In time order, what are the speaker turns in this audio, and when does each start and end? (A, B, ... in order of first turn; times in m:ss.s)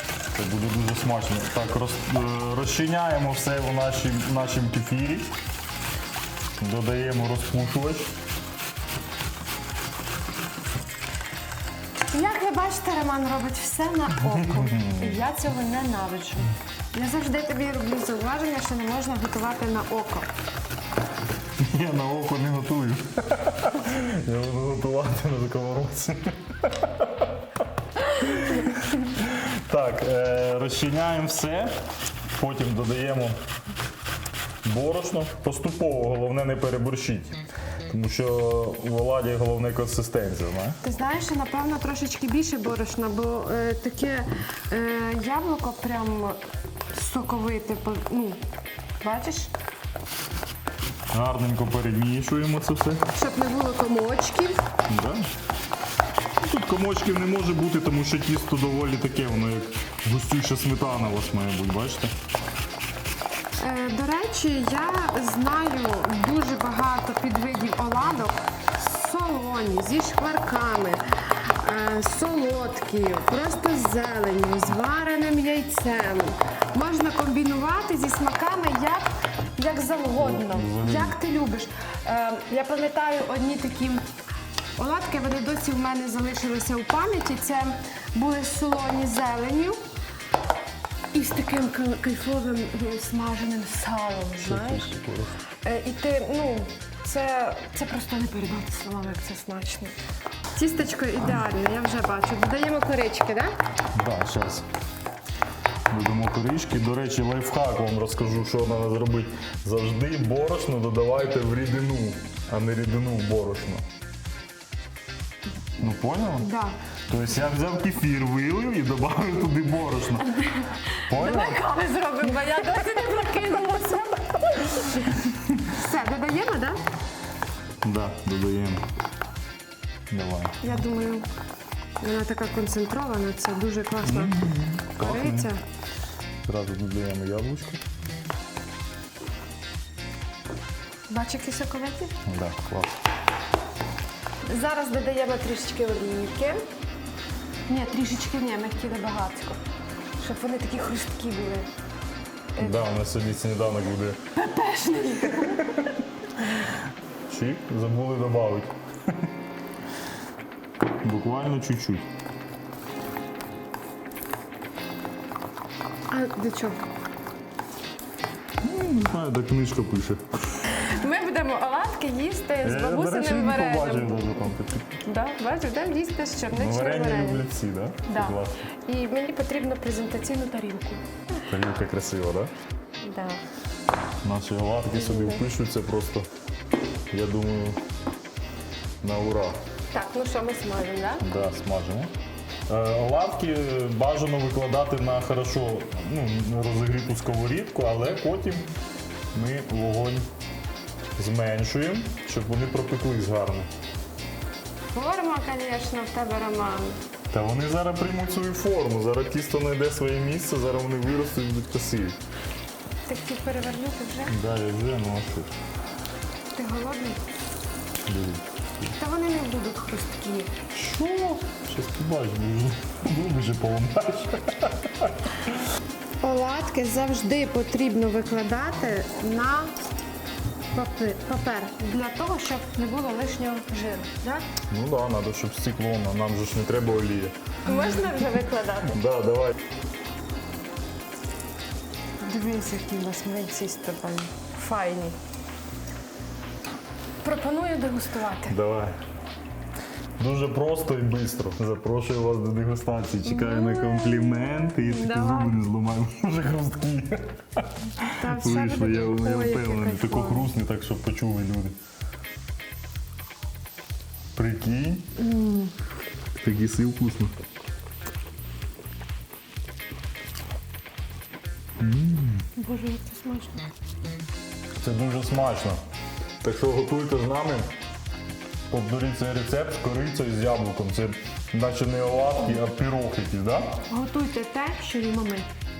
0:00.3-0:05.3 A
0:06.6-0:08.1 A
0:12.1-0:20.3 B
0:14.2-0:15.2 A
0:21.6-0:27.3 A
0:28.2-0:31.7 A
0:32.4-0:33.4 A
0:34.6-0:37.4 A
0:37.9-0:40.8 A
0:40.8-0:46.4 B
0:46.9-0:48.4 B
0:49.0-0:49.5 B
0:51.1-0:53.1 A
0:53.1-0:54.6 B
0:54.9-0:55.3 A
0:56.4-1:02.1 A
1:03.6-1:24.0 B
1:20.2-1:21.2 A
1:24.8-1:29.8 B
1:31.1-1:34.9 B
1:34.4-1:35.4 A
1:35.6-1:39.9 B
1:40.5-1:43.5 B
1:43.9-1:44.6 A
1:45.9-1:53.8 A
1:55.8-1:56.5 A
1:56.4-1:56.8 B
1:57.1-2:00.4 A
2:00.3-2:06.8 B
2:01.1-2:01.6 A
2:07.8-2:08.8 A
2:10.1-2:10.6 A
2:10.6-2:11.3 B
2:12.0-2:15.6 B
2:14.0-2:15.5 A
2:16.4-2:17.8 A
2:21.1-2:22.1 B
2:22.2-2:23.0 A
2:24.4-2:26.6 B
2:27.7-2:29.6 B
2:30.2-2:31.7 B
2:32.6-2:32.8 B
2:32.6-2:34.2 A
2:34.3-2:35.9 B
2:37.3-2:38.7 A
2:41.0-2:42.1 A
2:46.1-2:46.8 B
2:48.6-2:50.2 A
2:50.6-2:54.4 B
2:52.6-2:55.0 A
2:55.0-2:57.4 B
2:56.5-2:58.6 A
2:58.0-3:01.0 B
3:01.4-3:02.5 A
3:03.0-3:03.4 B
3:04.2-3:06.3 A
3:04.9-3:05.4 B
3:07.1-3:07.8 A
3:09.0-3:09.6 A
3:09.9-3:11.3 B
3:11.2-3:12.1 A
3:12.7-3:18.7 A
3:19.3-3:20.3 A
3:21.2-3:23.7 A
3:24.9-3:27.0 B
3:27.3-3:32.2 A
3:33.0-3:34.4 B
3:34.3-3:35.5 A
3:36.5-3:37.2 B
3:38.1-3:38.9 A
3:39.0-3:40.6 B
3:40.7-3:45.5 A
3:46.2-3:49.7 B
3:50.7-3:54.4 B
3:54.7-3:57.3 A
3:57.6-3:59.0 B
3:58.9-3:59.5 A
4:02.2-4:05.2 B
4:07.2-4:08.6 B
4:08.5-4:09.0 A
4:10.2-4:21.8 A
4:13.2-4:15.6 B
4:18.2-4:20.5 B
4:24.3-4:25.1 A
4:25.2-4:25.7 B
4:26.4-4:27.3 A
4:31.8-4:32.4 A
4:32.6-4:33.7 B
4:34.8-4:35.8 A
4:36.4-4:37.7 A
4:38.7-4:43.8 A
4:43.9-4:45.5 B